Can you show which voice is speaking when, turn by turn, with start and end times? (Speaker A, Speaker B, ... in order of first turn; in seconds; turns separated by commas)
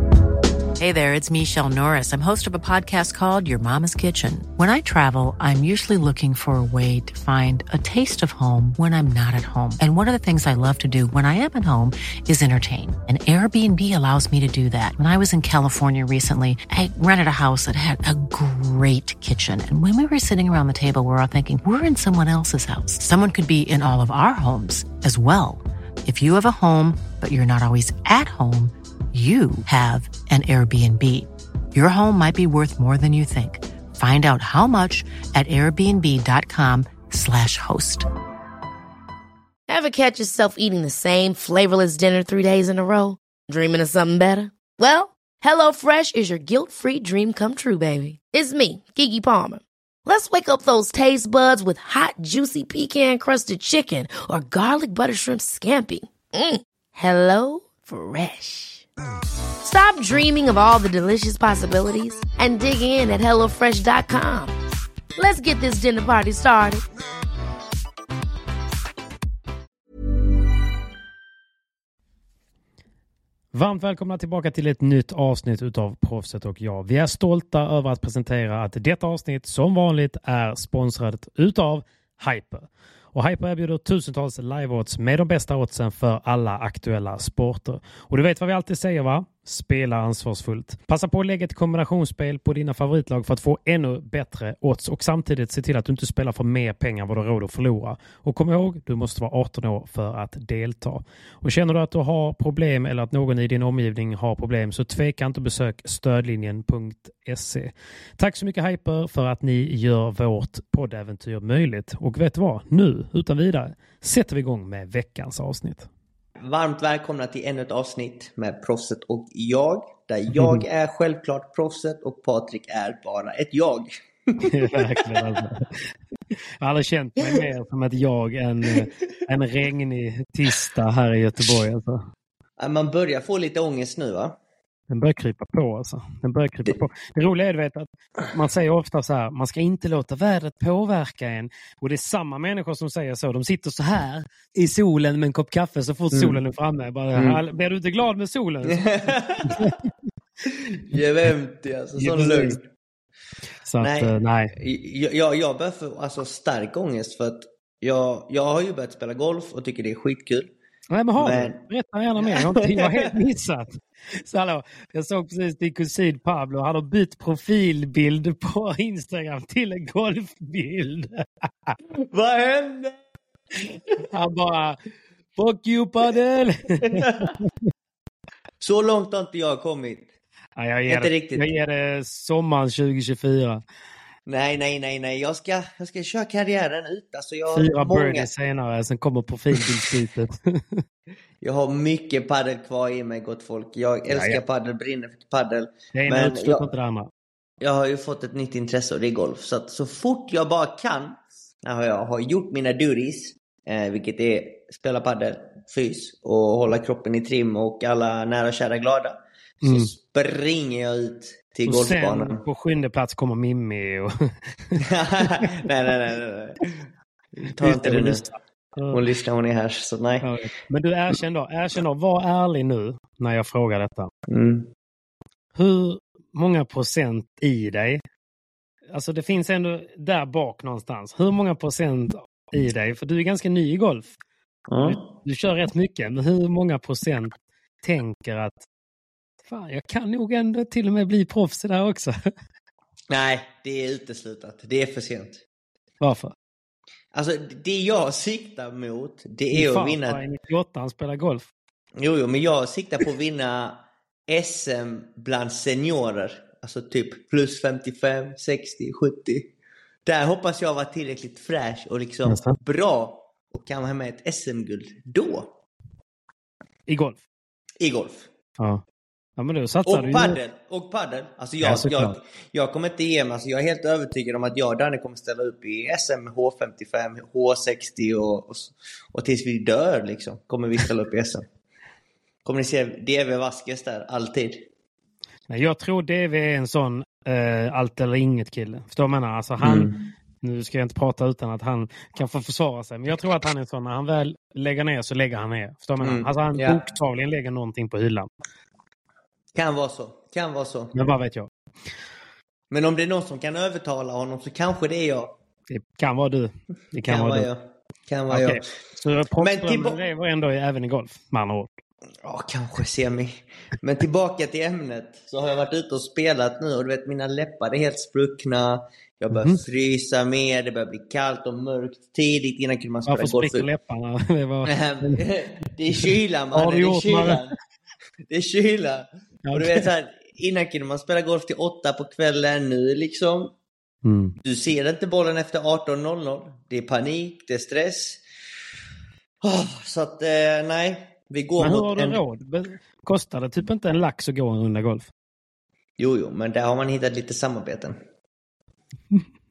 Speaker A: 0.8-38.0, Speaker B: 39.7-58.8, Speaker B: 59.6-64.5, Speaker B: 65.2-66.8, Speaker C: 73.5-115.9, Speaker D: 116.4-125.2, Speaker C: 120.3-120.6, Speaker C: 124.4-125.9, Speaker C: 126.6-132.0, Speaker D: 132.6-134.4, Speaker C: 134.9-149.9, Speaker D: 146.1-146.4, Speaker D: 147.1-147.4, Speaker D: 148.7-149.7, Speaker D: 150.5-152.6, Speaker C: 152.0-152.6, Speaker C: 153.6-154.5, Speaker D: 153.8-160.5, Speaker C: 160.9-171.8, Speaker D: 161.2-161.6, Speaker D: 162.2-163.1, Speaker D: 171.9-173.0, Speaker D: 173.6-174.1, Speaker C: 174.1-174.8, Speaker C: 175.4-177.7, Speaker D: 176.8-177.3, Speaker D: 178.6-180.1, Speaker C: 180.6-183.6, Speaker D: 180.9-181.4, Speaker D: 184.3-188.3, Speaker C: 187.5-190.8, Speaker D: 191.4-196.7, Speaker C: 194.1-194.4, Speaker C: 195.9-197.1, Speaker D: 197.6-212.4, Speaker C: 209.6-209.9, Speaker C: 211.7-215.4, Speaker D: 214.8-218.3, Speaker C: 217.6-219.0, Speaker D: 218.9-220.3, Speaker C: 220.2-224.1, Speaker D: 224.3-224.7, Speaker C: 225.5-228.0, Speaker C: 228.9-234.2, Speaker D: 234.7-235.1, Speaker C: 234.8-237.3, Speaker C: 237.8-238.6, Speaker C: 239.5-242.1, Speaker D: 243.1-245.4, Speaker C: 246.0-246.3, Speaker D: 247.1-250.2, Speaker C: 249.5-251.5, Speaker D: 252.0-259.5, Speaker D: 260.1-265.5, Speaker C: 262.3-262.6, Speaker C: 266.9-267.2, Speaker D: 267.8-268.3, Speaker C: 269.4-270.4, Speaker D: 269.9-281.4, Speaker C: 271.6-272.1, Speaker D: 282.4-284.6, Speaker C: 285.5-289.9, Speaker D: 289.6-290.0, Speaker C: 290.4-298.3, Speaker D: 296.0-296.8, Speaker D: 299.5-300.9, Speaker C: 300.9-301.5, Speaker D: 302.7-305.3, Speaker C: 305.7-307.5, Speaker D: 307.0-308.8, Speaker C: 308.3-311.7, Speaker D: 309.4-310.0, Speaker D: 312.2-323.7, Speaker C: 319.3-319.6, Speaker C: 323.1-325.3, Speaker D: 324.6-327.5, Speaker C: 325.9-327.4, Speaker D: 328.3-333.5, Speaker C: 329.4-329.9, Speaker C: 334.0-334.4, Speaker D: 334.4-338.2, Speaker D: 339.4-342.2, Speaker C: 341.6-345.1, Speaker D: 346.0-348.0